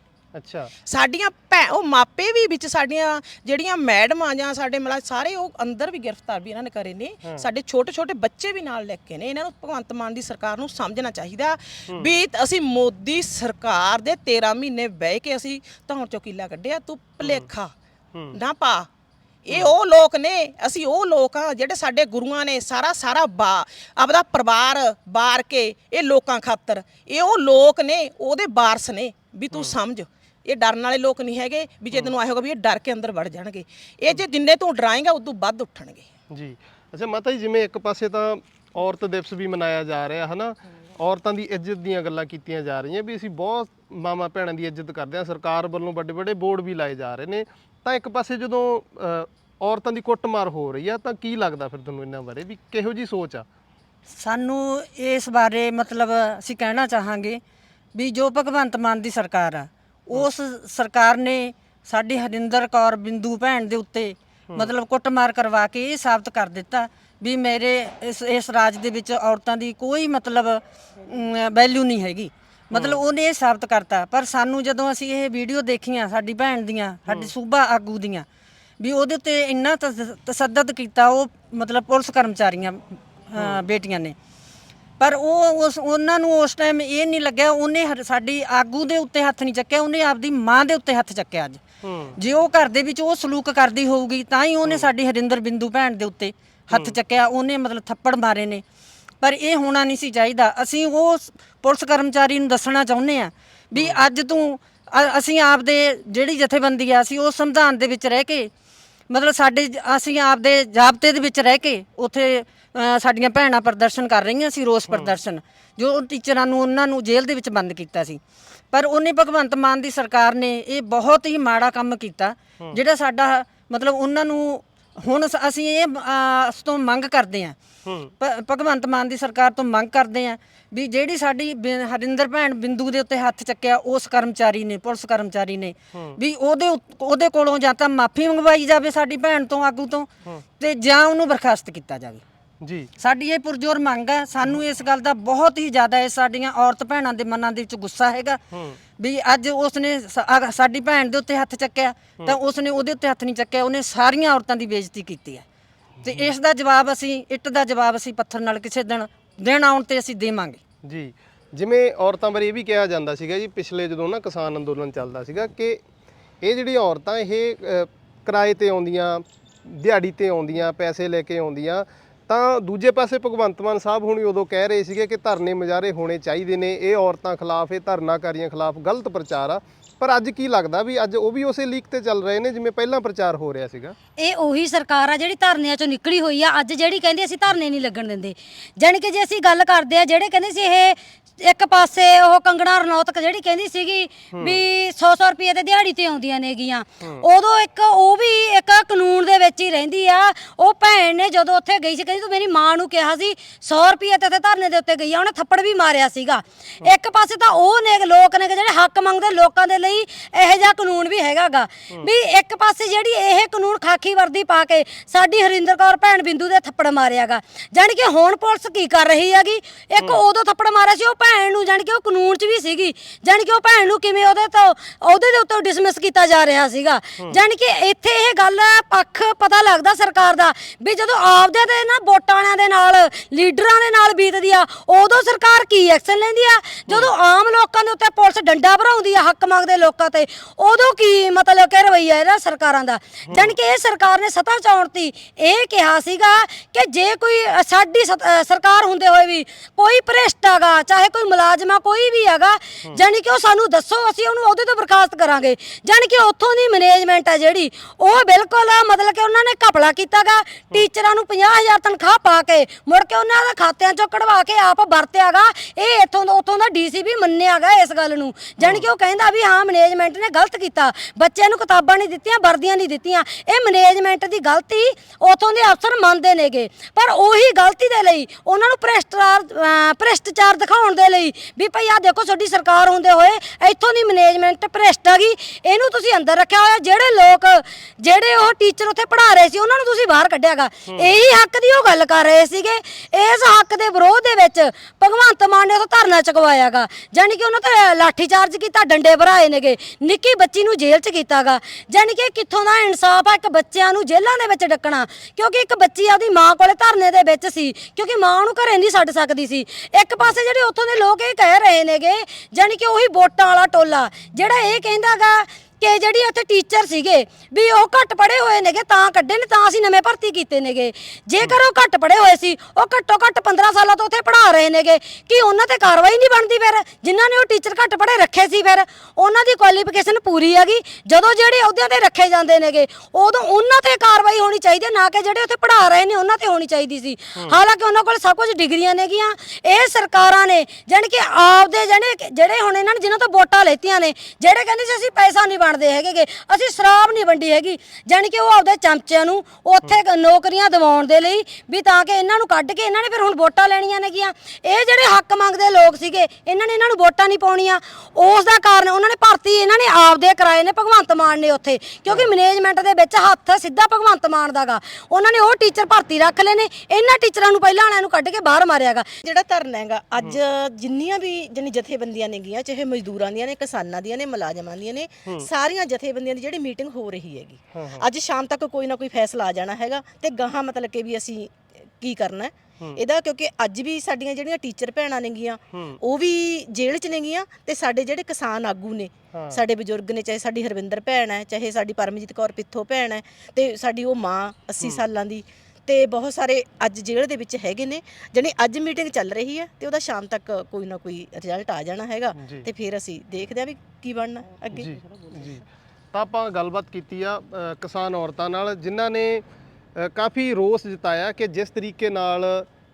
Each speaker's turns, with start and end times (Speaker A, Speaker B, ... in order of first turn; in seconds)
Speaker A: 0.3-0.7, 17.2-17.5, 36.3-53.5, 72.7-73.0, 91.8-92.2, 114.9-115.1, 127.8-128.1, 135.9-136.2, 142.6-142.9, 148.5-148.8, 156.0-156.3, 160.8-165.8, 166.4-183.9, 194.3-194.6, 236.9-237.1, 243.2-243.5, 268.6-268.9, 290.9-291.1, 337.3-337.6, 362.1-362.3, 377.7-378.0, 385.7-386.0, 389.3-389.6, 402.4-402.7, 404.7-409.4, 410.0-412.7
Speaker B: 0.8-17.7, 18.3-18.9, 19.4-36.0
Speaker C: 54.1-57.4, 57.9-78.2, 78.8-84.1, 85.0-91.6, 92.2-98.6, 99.2-108.5, 109.1-118.2, 118.7-127.5, 128.2-142.2, 143.0-148.4, 149.0-155.4, 156.0-160.6
Speaker D: 184.2-369.1
Speaker E: 369.2-405.0